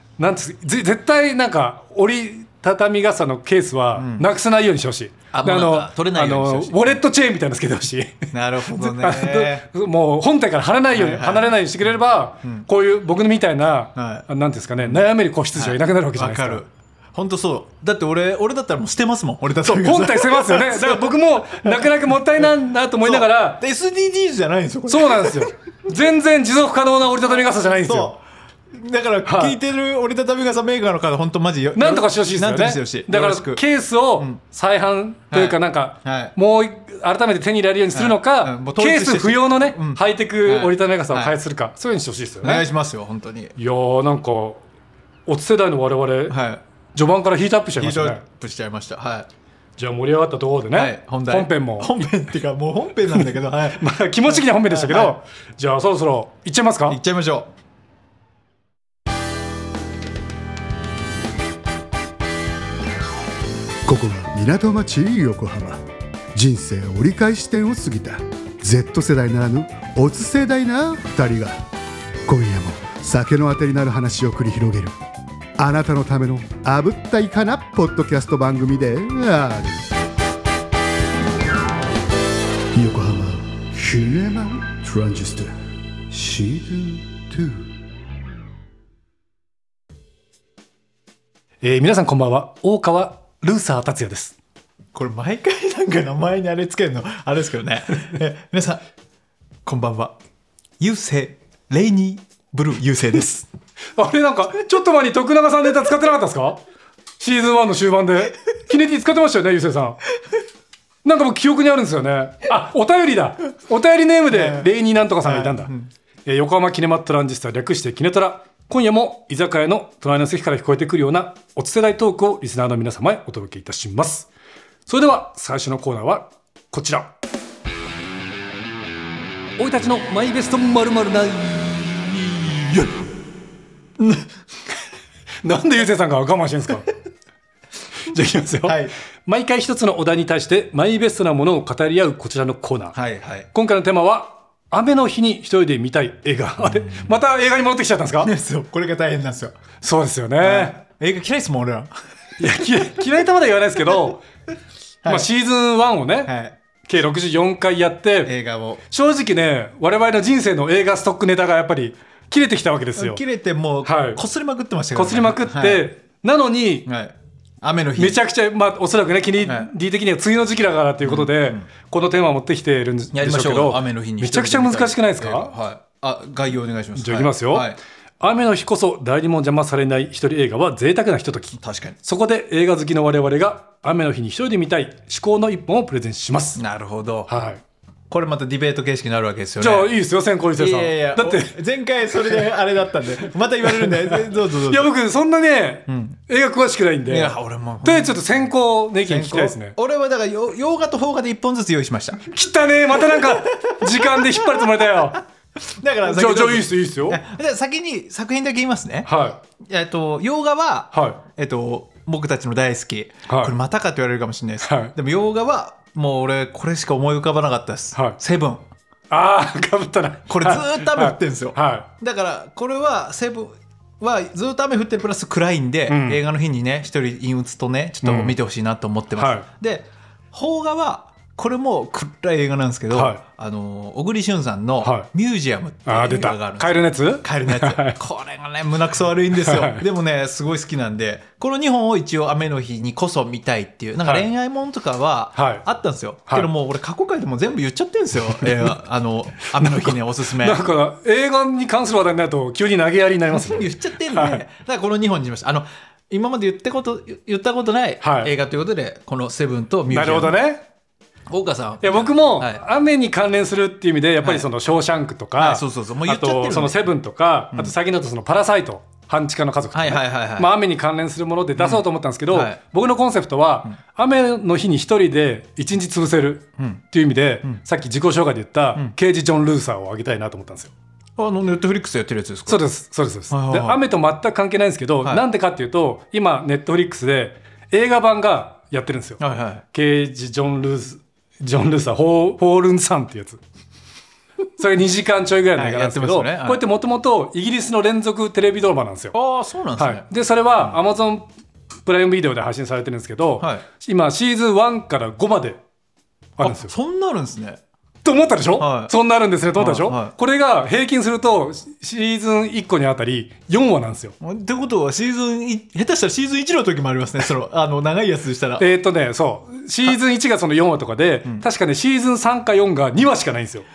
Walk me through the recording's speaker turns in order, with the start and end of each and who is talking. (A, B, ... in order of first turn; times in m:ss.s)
0:00.2-0:16.6 A
0:04.0-0:04.3 B
0:05.3-0:07.0 B
0:08.3-0:09.7 B
0:10.9-0:11.6 B
0:14.0-0:14.3 B
0:14.8-0:22.5 B
0:19.6-0:23.6 A
0:23.0-0:25.5 B
0:24.9-0:28.1 A
0:27.8-0:28.2 B
0:28.7-0:33.6 B
0:29.3-0:29.6 A
0:31.8-0:42.6 A
0:35.3-0:36.4 B
0:37.9-0:41.4 B
0:42.4-0:43.5 B
0:43.6-0:44.6 A
0:45.3-0:46.4 A
0:46.3-0:46.6 B
0:46.9-0:48.2 A
0:47.8-0:49.3 B
0:49.8-0:52.0 A
0:50.7-0:55.2 B
0:53.8-0:57.0 A
0:56.9-0:57.5 B
1:03.9-1:05.8 C
1:06.3-1:11.6 C
1:12.3-1:15.0 C
1:15.6-1:20.0 C
1:22.8-1:25.5 C
1:26.1-1:27.7 C
1:31.6-1:34.4 A
1:34.9-1:38.8 B
1:39.7-1:40.2 B
1:40.8-1:43.5 B
1:44.0-1:46.6 A
1:47.2-1:50.0 A
1:51.0-1:55.7 A
1:54.3-1:54.7 B
1:55.2-1:55.9 B
1:56.3-2:04.3 A
2:04.9-2:07.1 A
2:09.6-2:13.0 A
2:14.0-2:14.3 B
2:15.4-2:16.9 A
2:18.1-2:23.0 A
2:18.6-2:18.9 B
2:23.0-2:23.5 B
2:23.5-2:28.3 A
2:26.6-2:27.1 B
2:28.2-2:29.5 B
2:29.8-2:30.8 A
2:30.4-2:31.9 B
2:32.4-2:34.2 A
2:35.0-2:35.3 B
2:35.1-2:36.3 A
2:36.3-2:36.6 B
2:36.8-2:38.3 A
2:38.2-2:38.8 B
2:38.9-2:43.2 A
2:43.0-2:45.9 B
2:43.8-2:44.2 A
2:45.0-2:46.9 A
2:46.9-2:48.2 B
2:48.0-2:55.5 A
2:49.4-2:49.7 B
2:51.0-2:51.6 B
2:53.1-2:57.8 B
2:57.0-3:06.6 A
3:01.6-3:02.0 B
3:06.6-3:07.3 B
3:07.3-3:07.6 A
3:08.1-3:10.0 B
3:09.6-3:11.5 A
3:10.6-3:14.9 B
3:13.6-3:19.8 A
3:15.9-3:16.2 B
3:17.1-3:18.5 B
3:19.0-3:22.2 B
3:22.3-3:25.2 A
3:22.9-3:25.0 B
3:25.8-3:29.1 B
3:26.0-3:27.2 A
3:29.0-3:29.4 A
3:29.6-3:38.6 B
3:30.9-3:31.2 A
3:33.3-3:33.5 A
3:34.6-3:34.9 A
3:39.1-3:41.9 A
3:40.3-4:10.6 B
3:45.9-3:46.2 A
3:48.0-3:48.4 A
3:49.2-3:49.5 A
3:52.9-3:53.2 A
3:54.8-3:55.1 A
3:55.9-3:58.0 A
3:59.4-3:59.8 A
4:04.0-4:04.3 A
4:05.4-4:05.6 A
4:09.6-4:14.4 A
4:13.4-4:20.4 B
4:18.0-4:18.3 A
4:19.9-4:20.6 A
4:21.3-4:22.6 B
4:21.8-4:40.7 A
4:24.2-4:24.5 B
4:25.4-4:26.8 B
4:29.7-4:30.5 B
4:31.6-4:32.6 B
4:36.6-4:36.8 B
4:41.2-4:42.6 B
4:42.5-4:49.2 A
4:43.3-4:43.8 B
4:49.2-4:49.6 B
4:49.7-4:53.4 A
4:54.6-4:59.1 A
4:55.6-4:56.6 B
4:59.1-5:00.0 B
4:59.8-5:01.3 A
5:01.9-5:05.6 A
5:06.4-5:06.7 A
5:06.4-5:07.6 B
5:08.0-5:14.2 A
5:08.6-5:08.9 B
5:09.6-5:10.2 B
5:14.2-5:18.7 B
5:18.6-5:23.7 A